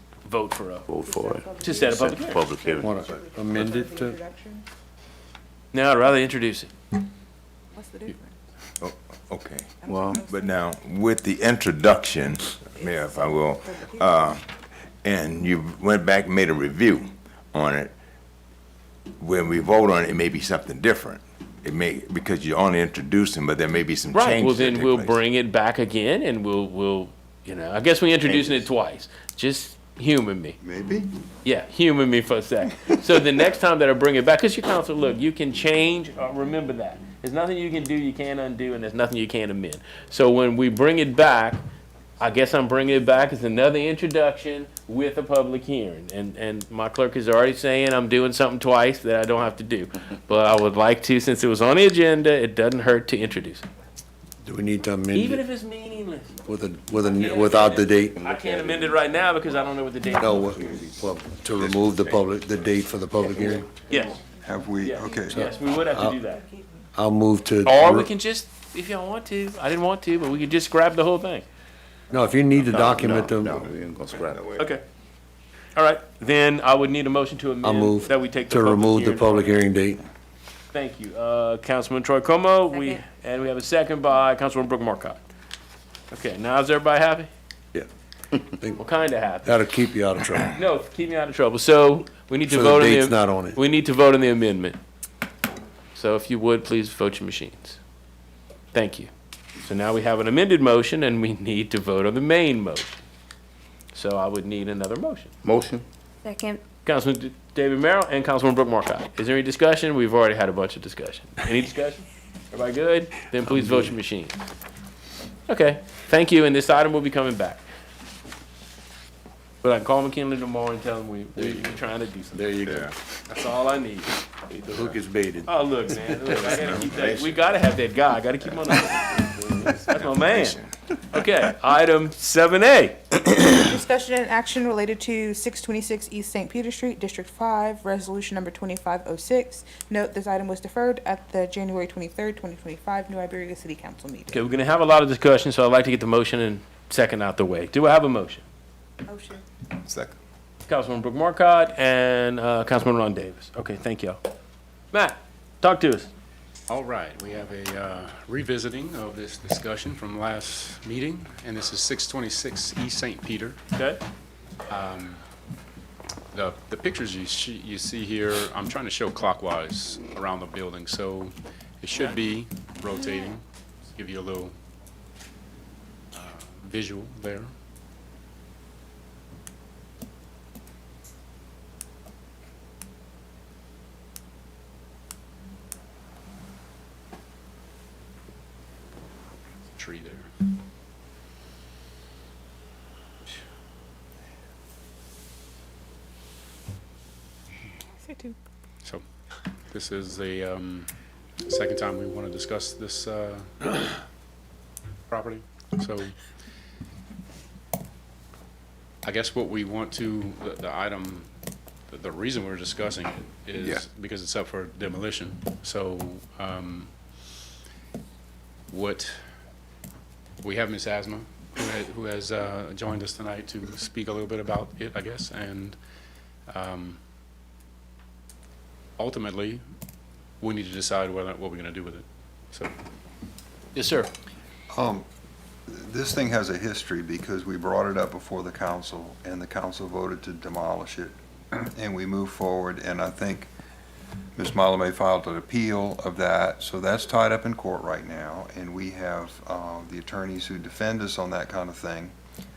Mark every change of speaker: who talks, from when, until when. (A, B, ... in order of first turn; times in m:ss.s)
0:00.2-0:00.9 A
0:00.9-0:01.4 B
0:01.0-0:04.6 C
0:01.6-0:02.5 A
0:02.0-0:02.9 B
0:02.8-0:04.2 D
0:05.7-0:06.7 A
0:07.8-0:08.4 C
0:08.8-0:18.0 E
0:09.8-0:10.6 C
0:12.8-0:14.3 C
0:19.2-0:25.2 E
0:24.1-0:30.6 A
0:28.2-0:28.7 E
0:30.6-0:31.1 F
0:31.4-0:41.6 A
0:42.2-0:53.6 A
0:54.4-0:55.4 D
0:55.1-0:56.4 A
0:56.5-0:58.2 D
0:57.1-1:00.6 A
0:58.2-0:59.0 B
1:00.2-1:03.7 D
1:03.3-1:04.2 A
1:04.4-1:05.5 F
1:04.8-1:06.5 A
1:05.3-1:06.2 D
1:07.0-1:08.1 D
1:07.6-1:11.4 A
1:12.1-1:13.7 D
1:12.7-1:14.4 B
1:14.6-1:14.8 A
1:15.8-1:19.5 A
1:17.6-1:20.0 D
1:20.7-1:25.2 A
1:26.1-1:27.3 A
1:27.7-1:28.8 D
1:28.8-1:29.6 A
1:29.4-1:30.5 D
1:30.5-1:34.8 A
1:32.5-1:33.6 D
1:35.9-1:37.8 A
1:38.7-1:39.1 A
1:39.6-1:43.0 A
1:43.9-1:45.3 A
1:45.5-1:45.8 B
1:46.8-1:54.4 A
1:55.5-1:57.6 A
1:59.6-2:04.2 A
2:02.6-2:02.9 E
2:04.6-2:06.4 D
2:05.5-2:13.1 A
2:06.4-2:07.5 E
2:09.6-2:10.7 E
2:13.3-2:24.4 C
2:24.3-2:28.4 A
2:29.1-2:29.4 C
2:29.8-2:30.1 E
2:30.7-2:34.2 A
2:34.9-2:36.1 A
2:36.7-2:43.6 G
2:43.7-2:44.0 A
2:44.7-2:45.2 G
2:46.3-2:53.4 G
2:54.0-2:54.5 G
2:56.1-2:57.5 G
3:09.8-3:10.3 G
3:18.0-3:18.4 C
3:19.7-3:20.9 G
3:21.4-3:23.6 G
3:25.1-3:26.2 G
3:29.0-3:31.3 G
3:31.9-3:36.9 G
3:33.6-3:33.8 E
3:38.7-3:39.2 G
3:40.4-3:45.8 G
3:46.5-3:47.0 G
3:49.0-3:49.6 G
3:50.4-3:52.7 G
3:53.8-3:54.1 A
3:54.7-3:55.1 F
3:55.7-4:03.5 F
4:04.4-4:12.2 F